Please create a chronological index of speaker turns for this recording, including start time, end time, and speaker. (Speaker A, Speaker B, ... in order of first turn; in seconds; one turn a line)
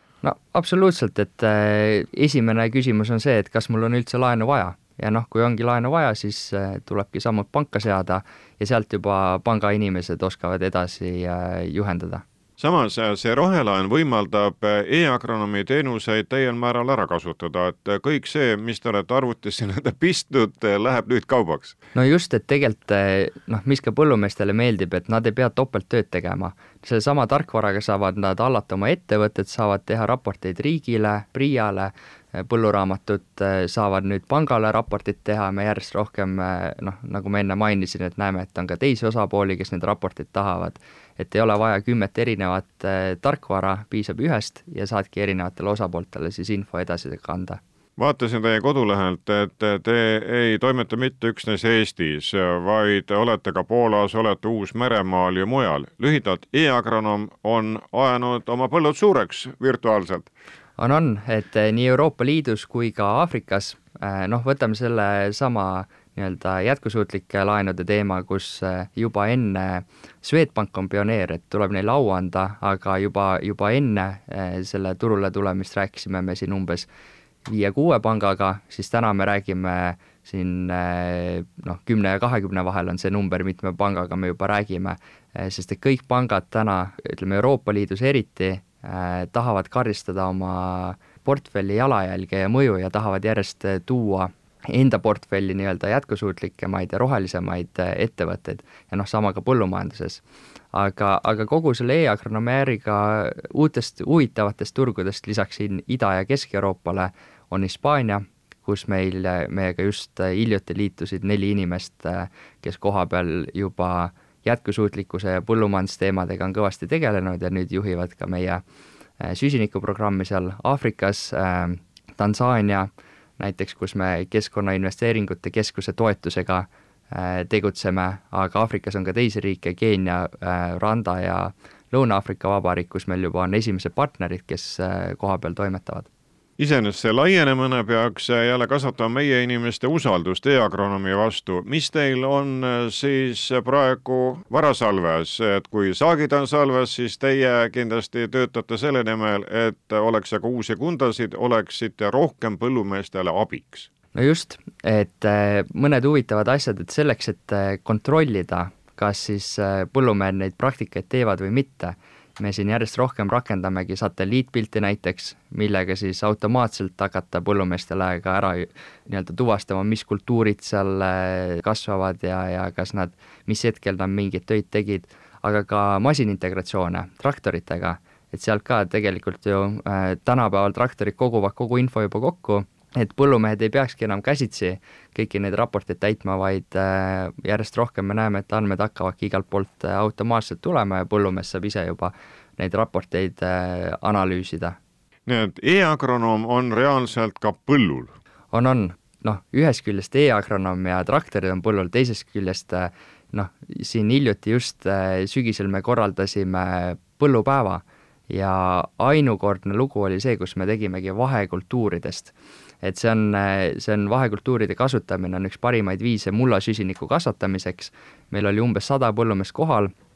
Speaker A: 0.2-12.2
Speaker B: 12.6-21.8
Speaker A: 21.9-47.6
Speaker B: 48.0-60.3
Speaker A: 60.8-76.9
Speaker A: 77.5-100.2
Speaker A: 100.7-118.6
Speaker A: 119.2-136.1
Speaker B: 136.6-153.9
Speaker A: 154.1-194.8
Speaker B: 195.2-198.1
Speaker A: 198.5-219.9